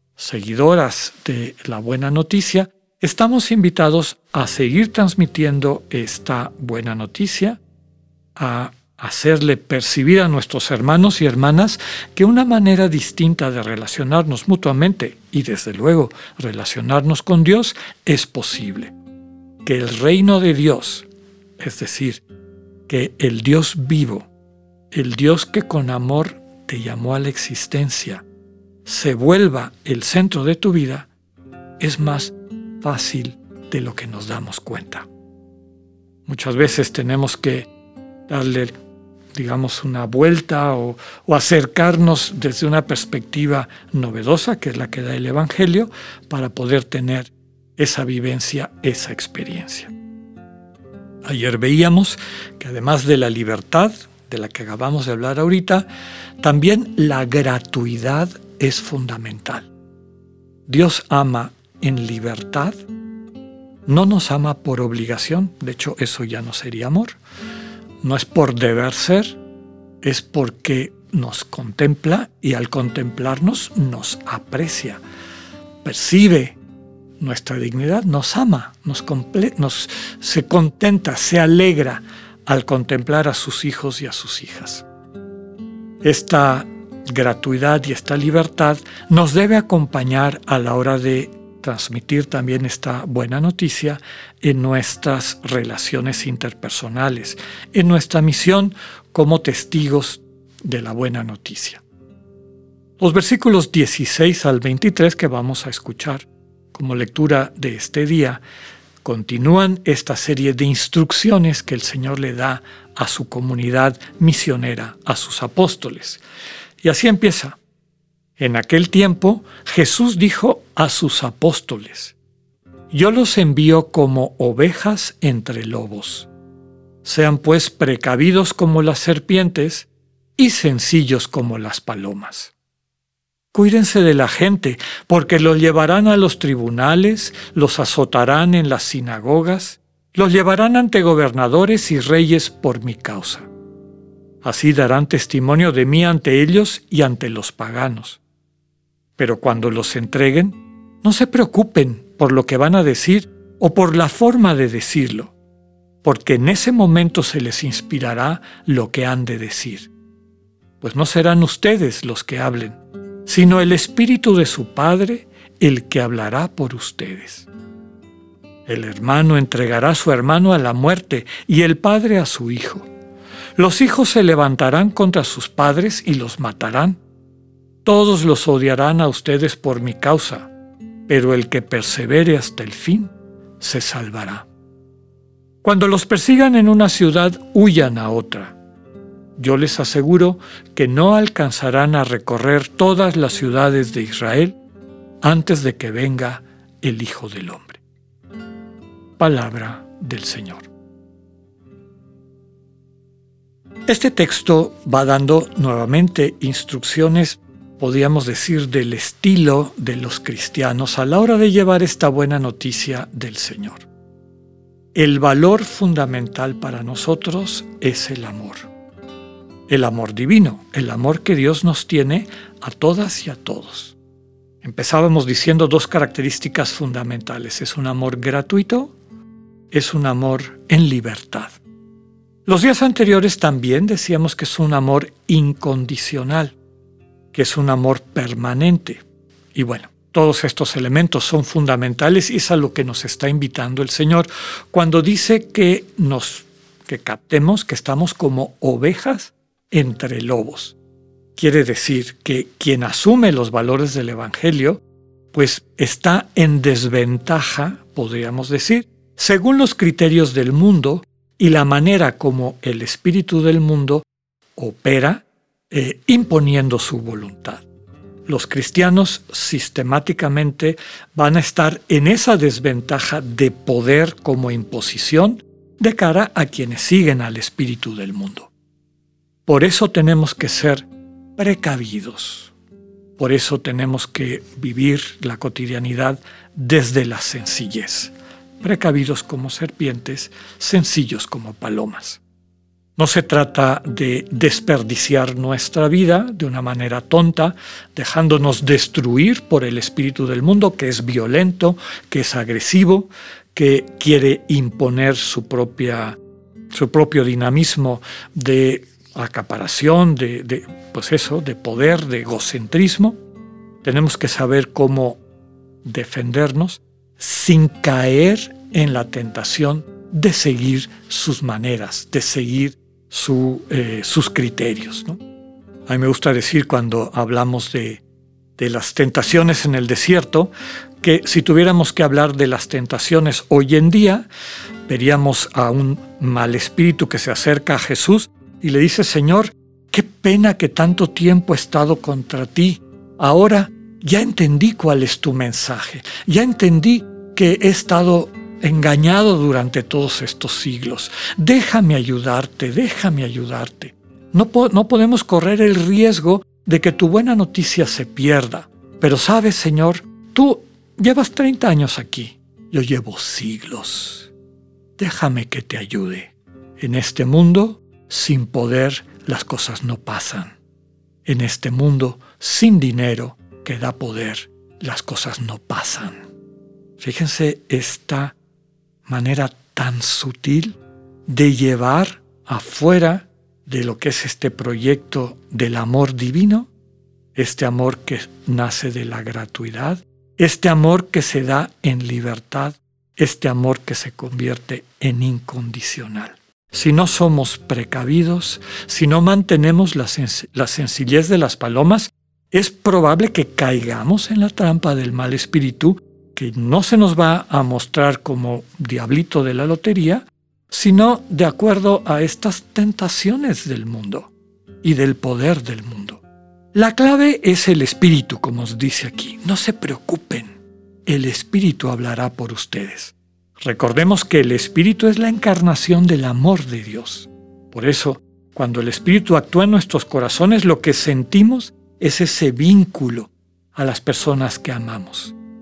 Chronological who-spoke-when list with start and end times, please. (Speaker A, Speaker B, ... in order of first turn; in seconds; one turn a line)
Speaker A: 0.1-7.6
Speaker A: 8.3-18.9
Speaker A: 19.6-21.1
Speaker A: 21.6-22.2
Speaker A: 22.9-24.3
Speaker A: 24.9-28.2
Speaker A: 28.8-31.1
Speaker A: 31.8-35.1
Speaker A: 36.2-37.7
Speaker A: 38.3-38.8
Speaker A: 39.3-49.9
Speaker A: 51.2-55.9
Speaker A: 56.4-59.7
Speaker A: 60.6-62.8
Speaker A: 63.9-67.2
Speaker A: 68.0-69.4
Speaker A: 70.0-75.0
Speaker A: 75.8-76.6
Speaker A: 77.2-84.8
Speaker A: 86.0-101.8
Speaker A: 103.0-108.4
Speaker A: 109.0-116.2
Speaker A: 116.8-117.6
Speaker A: 118.4-122.2
Speaker A: 122.9-126.3
Speaker A: 127.0-132.5
Speaker A: 133.5-143.5
Speaker A: 144.4-148.2
Speaker A: 149.2-155.3
Speaker A: 156.0-159.9
Speaker A: 160.8-167.5
Speaker A: 168.7-172.9
Speaker A: 173.6-177.0
Speaker A: 177.8-180.5
Speaker A: 181.1-184.5
Speaker A: 185.6-188.5
Speaker A: 189.4-194.5
Speaker A: 195.2-197.8
Speaker A: 199.2-200.7
Speaker A: 203.9-213.9
Speaker A: 214.9-218.7
Speaker A: 219.7-223.9
Speaker A: 224.6-228.9
Speaker A: 229.7-231.6
Speaker A: 232.4-236.5
Speaker A: 237.3-250.8
Speaker A: 251.3-264.1
Speaker A: 264.6-267.6
Speaker A: 268.2-278.5
Speaker A: 279.4-282.5
Speaker A: 283.2-292.2
Speaker A: 292.9-306.2
Speaker A: 306.7-313.2
Speaker A: 313.8-315.2
Speaker A: 315.8-325.2
Speaker A: 325.9-328.0
Speaker A: 328.6-334.2
Speaker A: 334.9-364.3
Speaker A: 365.0-370.6
Speaker A: 371.2-376.3
Speaker A: 377.0-378.4
Speaker A: 379.1-386.7
Speaker A: 387.3-416.2
Speaker A: 416.7-420.5
Speaker A: 421.1-435.3